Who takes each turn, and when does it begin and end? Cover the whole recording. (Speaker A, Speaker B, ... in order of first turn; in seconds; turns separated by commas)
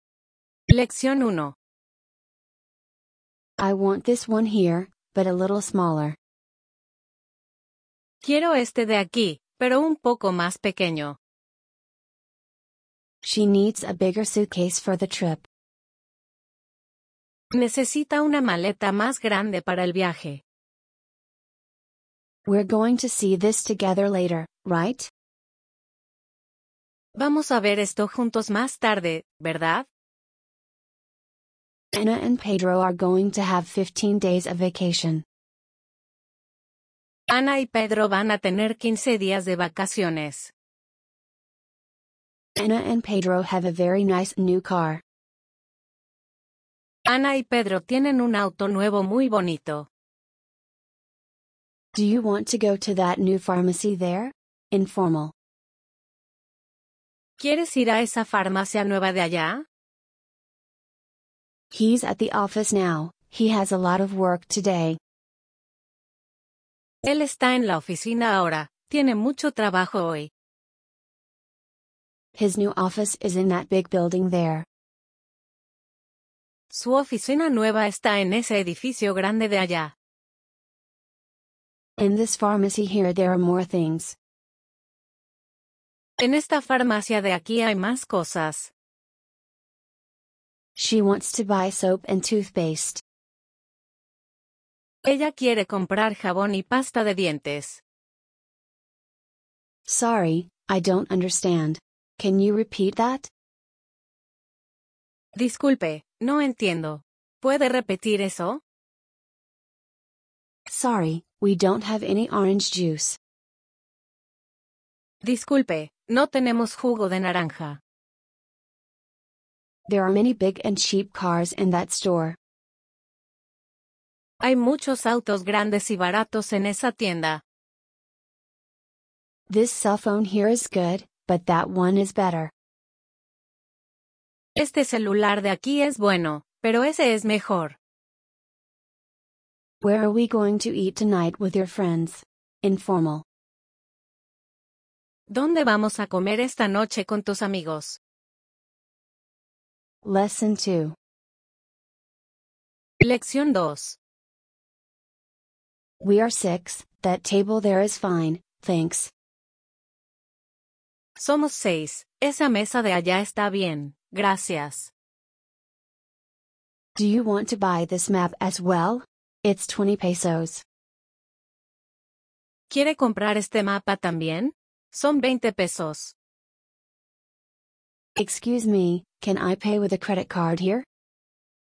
Speaker A: 0.7-1.6, Speaker B: 3.6-6.2, Speaker A: 8.2-11.2, Speaker B: 13.2-15.5, Speaker A: 17.5-20.4, Speaker B: 22.5-25.1, Speaker A: 27.2-29.9, Speaker B: 31.9-35.2, Speaker A: 37.3-40.5, Speaker B: 42.6-45.0, Speaker A: 47.0-49.9, Speaker B: 51.9-55.3, Speaker A: 57.4-59.6, Speaker B: 61.7-65.0, Speaker A: 67.0-70.3, Speaker B: 72.4-74.7, Speaker A: 76.7-79.9, Speaker B: 82.0-84.2, Speaker A: 86.2-88.7, Speaker B: 90.8-93.0, Speaker A: 95.0-97.8, Speaker B: 99.9-103.3, Speaker A: 105.3-108.6, Speaker B: 110.7-113.2, Speaker A: 115.2-117.8, Speaker B: 119.9-122.4, Speaker A: 124.4-127.4, Speaker B: 129.5-132.5, Speaker A: 134.6-137.8, Speaker B: 139.8-143.2, Speaker A: 145.3-148.0, Speaker B: 150.0-151.0, Speaker A: 153.0-154.0, Speaker B: 156.0-159.1, Speaker A: 161.2-164.9, Speaker B: 167.0-170.6, Speaker A: 172.7-176.2, Speaker B: 178.2-180.8